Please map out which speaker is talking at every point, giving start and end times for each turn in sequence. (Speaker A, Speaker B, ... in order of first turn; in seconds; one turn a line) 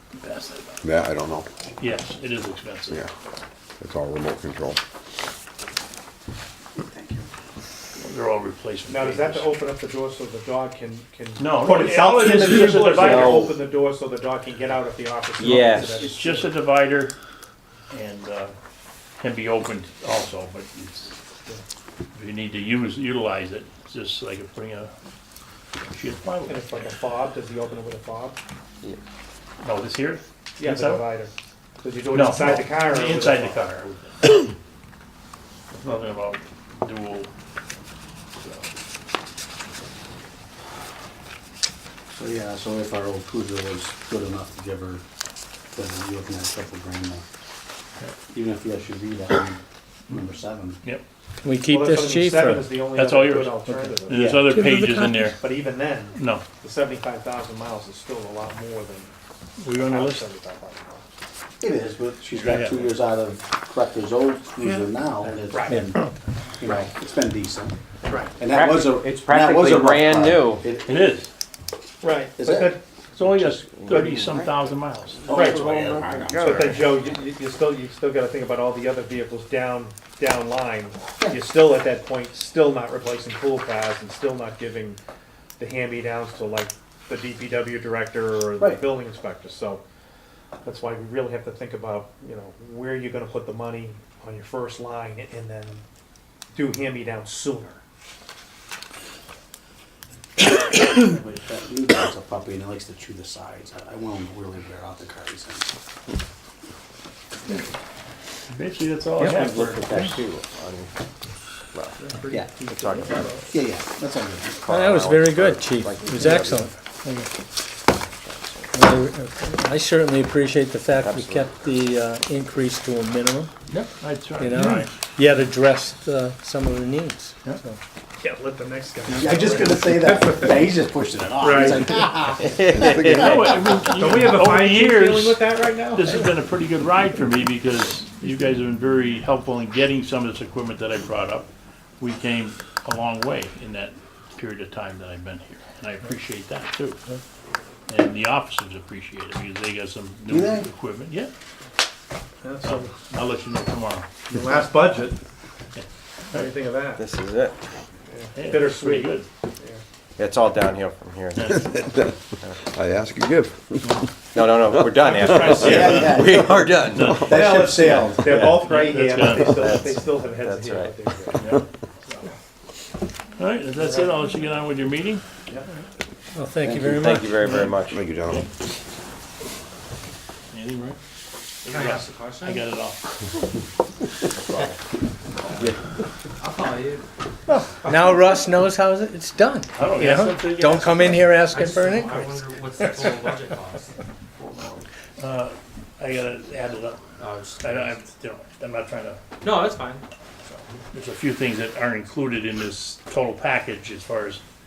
Speaker A: 0.2-0.8
Speaker B: 0.8-1.5
Speaker A: 1.8-3.1
Speaker B: 3.8-4.8
Speaker C: 6.9-7.3
Speaker A: 8.0-9.5
Speaker D: 8.9-16.5
Speaker A: 11.4-13.5
Speaker E: 12.9-13.6
Speaker E: 15.4-16.0
Speaker A: 15.4-17.1
Speaker A: 17.9-18.5
Speaker A: 19.2-21.1
Speaker A: 22.1-24.9
Speaker A: 25.9-26.9
Speaker D: 26.5-28.4
Speaker A: 29.6-31.1
Speaker D: 30.6-33.8
Speaker A: 32.1-34.5
Speaker A: 35.7-37.3
Speaker A: 38.4-38.7
Speaker C: 42.1-45.0
Speaker C: 45.7-47.2
Speaker C: 48.3-50.8
Speaker F: 51.4-52.7
Speaker D: 51.6-54.4
Speaker A: 52.9-55.4
Speaker C: 54.1-54.5
Speaker F: 54.5-55.3
Speaker D: 55.4-59.1
Speaker A: 56.1-56.4
Speaker A: 59.6-60.3
Speaker D: 59.7-61.1
Speaker C: 61.6-66.0
Speaker A: 62.4-62.9
Speaker D: 65.5-65.9
Speaker C: 66.6-67.8
Speaker D: 68.1-68.3
Speaker C: 68.4-71.2
Speaker E: 68.5-70.7
Speaker A: 70.9-71.3
Speaker D: 72.0-72.8
Speaker C: 72.4-72.8
Speaker A: 73.2-75.4
Speaker E: 73.4-74.5
Speaker E: 75.3-76.3
Speaker D: 75.3-75.6
Speaker C: 75.3-75.6
Speaker B: 75.6-77.0
Speaker D: 76.3-85.0
Speaker D: 85.6-89.8
Speaker C: 88.6-88.8
Speaker D: 90.6-95.8
Speaker D: 96.5-97.8
Speaker C: 100.9-105.7
Speaker A: 108.5-110.2
Speaker E: 109.2-110.9
Speaker D: 112.0-113.5
Speaker E: 112.7-113.3
Speaker C: 113.5-114.6
Speaker E: 114.6-116.7
Speaker F: 114.7-116.7
Speaker A: 117.0-117.3
Speaker E: 118.0-118.8
Speaker F: 118.7-123.5
Speaker E: 121.0-121.6
Speaker A: 123.7-125.0
Speaker F: 124.4-127.8
Speaker D: 128.2-130.7
Speaker A: 129.1-129.5
Speaker C: 129.1-133.5
Speaker D: 131.4-132.0
Speaker E: 131.9-133.4
Speaker B: 132.7-133.6
Speaker A: 132.9-135.4
Speaker D: 133.8-136.3
Speaker A: 135.9-141.5
Speaker A: 142.0-147.0
Speaker A: 147.9-151.3
Speaker C: 150.3-150.7
Speaker D: 152.4-152.9
Speaker A: 152.6-154.1
Speaker D: 154.3-155.2
Speaker A: 155.8-156.5
Speaker D: 156.3-157.0
Speaker E: 157.0-157.6
Speaker D: 158.1-159.8
Speaker A: 158.4-159.3
Speaker E: 160.2-161.8
Speaker A: 161.3-161.7
Speaker B: 161.5-165.8
Speaker E: 164.3-167.2
Speaker D: 165.1-166.3
Speaker C: 165.6-168.7
Speaker A: 165.7-166.2
Speaker A: 166.9-167.4
Speaker B: 167.0-167.3
Speaker D: 167.3-171.5
Speaker A: 168.3-169.9
Speaker E: 169.6-170.9
Speaker A: 171.3-172.3
Speaker A: 173.4-175.2
Speaker D: 173.8-174.2
Speaker F: 176.3-177.3
Speaker E: 176.6-178.0
Speaker A: 177.4-177.7
Speaker B: 177.9-178.5
Speaker A: 180.5-181.0
Speaker A: 181.7-183.0
Speaker G: 181.7-182.7
Speaker E: 184.5-184.8
Speaker G: 186.4-187.1
Speaker F: 187.5-192.3
Speaker A: 189.8-191.9
Speaker G: 191.5-193.9
Speaker A: 195.2-197.0
Speaker G: 197.2-198.0
Speaker A: 197.6-199.2
Speaker G: 199.4-200.6
Speaker A: 200.9-204.4